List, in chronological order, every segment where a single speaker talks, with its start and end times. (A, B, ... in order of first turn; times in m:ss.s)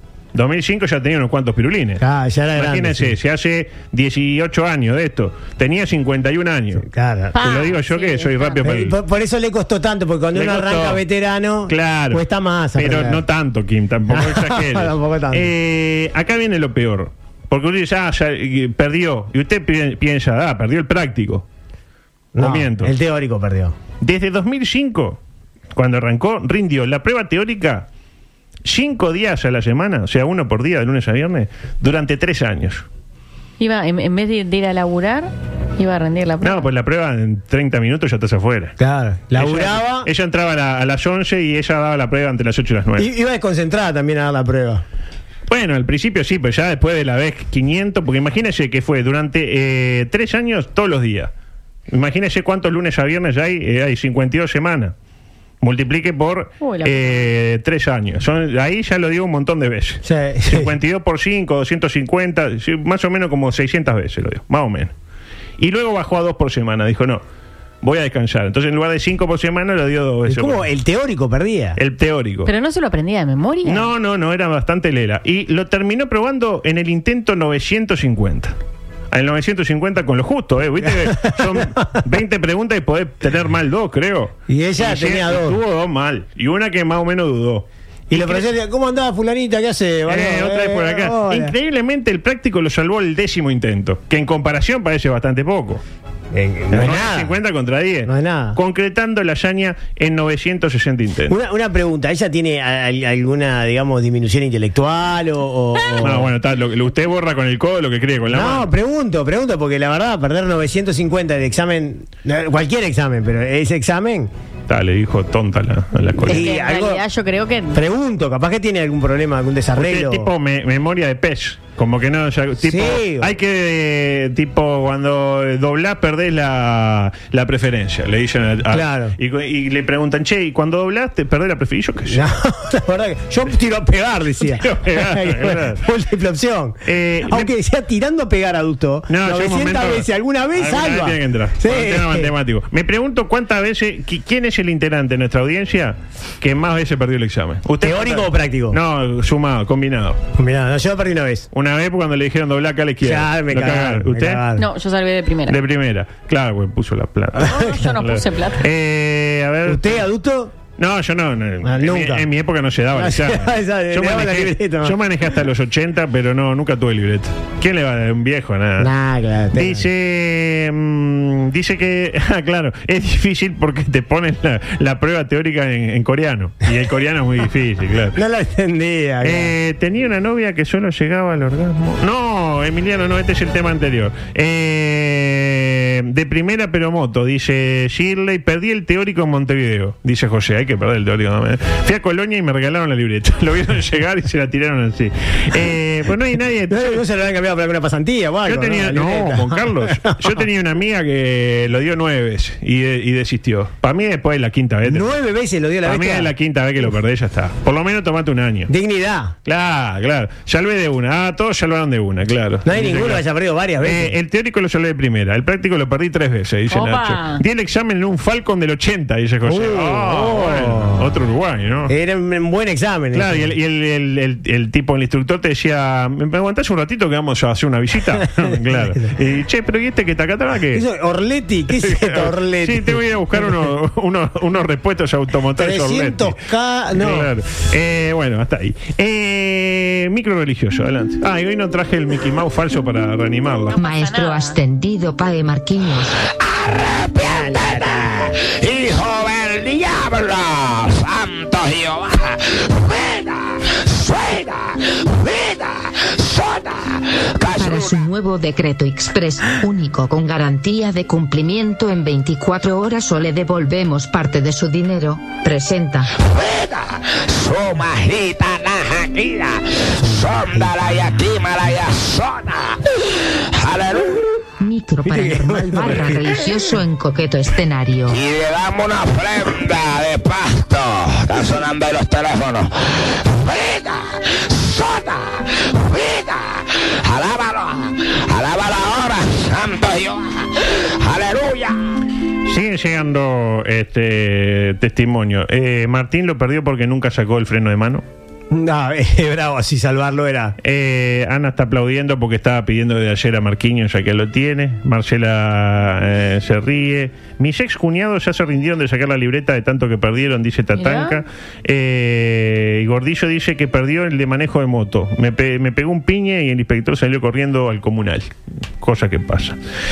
0:00.3-0:02.0 A
0:02.0-0:03.2 B
0:02.5-0:06.8 A
0:06.8-0:07.3 B
0:07.3-0:08.6 C
0:07.4-0:09.0 A
0:08.6-0:13.2 B
0:10.3-0:11.0 A
0:11.7-0:12.2 A
0:12.8-0:21.4 A
0:14.1-0:15.5 B
0:22.3-0:23.7 B
0:22.4-0:22.9 A
0:24.0-0:25.2 A
0:25.7-0:27.9 A
0:28.6-0:32.8 A
0:33.6-0:36.7 C
0:36.4-0:38.7 A
0:38.8-0:40.1 B
0:39.3-0:43.1 A
0:43.0-0:44.8 B
0:45.5-0:51.3 A
0:51.9-0:54.9 A
0:55.6-1:04.9 A
0:56.6-0:57.3 C
1:00.0-1:00.7 B
1:05.6-1:07.2 A
1:07.8-1:10.7 A
1:10.2-1:11.8 B
1:11.8-1:12.5 A
1:12.4-1:13.9 C
1:13.6-1:18.5 A
1:19.1-1:28.5 A
1:20.8-1:22.0 B
1:24.5-1:25.6 B
1:28.1-1:31.5 B
1:30.1-1:35.8 A
1:36.3-1:37.4 B
1:36.7-1:41.4 A
1:38.0-1:38.6 B
1:41.3-1:46.3 B
1:46.0-1:48.7 A
1:48.3-1:54.3 B
1:54.7-1:56.5 A
1:56.3-1:57.0 B
1:56.3-1:57.8 C
1:57.7-2:00.3 B
1:59.8-2:12.2 A
2:02.6-2:03.3 B
2:08.7-2:09.2 B
2:12.1-2:22.3 B
2:14.4-2:15.8 A
2:16.8-2:17.5 A
2:19.1-2:30.2 A
2:27.8-2:28.8 B
2:30.4-2:31.5 B
2:31.5-2:34.4 A
2:33.0-2:34.7 B
2:34.6-2:35.6 C
2:35.5-2:40.0 A
2:37.4-2:38.6 C
2:37.5-2:37.8 B
2:39.6-2:40.5 B
2:40.8-2:48.9 A
2:41.6-2:42.3 B
2:42.9-2:45.0 B
2:48.8-2:49.9 B
2:49.5-2:58.2 A
2:58.1-2:59.5 B
2:59.2-3:17.0 A
3:16.7-3:20.4 B
3:18.4-3:25.1 A
3:24.8-3:26.3 B
3:25.8-3:28.7 A
3:28.7-3:29.3 B
3:29.4-3:33.2 A
3:32.6-3:34.2 B
3:33.8-3:41.9 A
3:36.7-3:37.4 C
3:39.4-3:41.1 B
3:41.9-3:43.5 B
3:43.1-3:50.8 A
3:48.2-3:49.1 B
3:50.7-3:53.5 B
3:51.7-3:56.4 A
3:55.6-3:57.3 B
3:56.9-4:03.8 A
4:03.8-4:04.6 C
4:03.8-4:06.2 D
4:06.4-4:18.0 E
4:17.5-4:26.1 D
4:26.2-4:34.2 E
4:34.6-4:38.2 D
4:35.0-4:36.2 B
4:38.1-4:51.8 E
4:52.4-4:58.0 A
4:58.5-5:00.6 B
5:00.6-5:19.6 A
5:10.8-5:11.2 C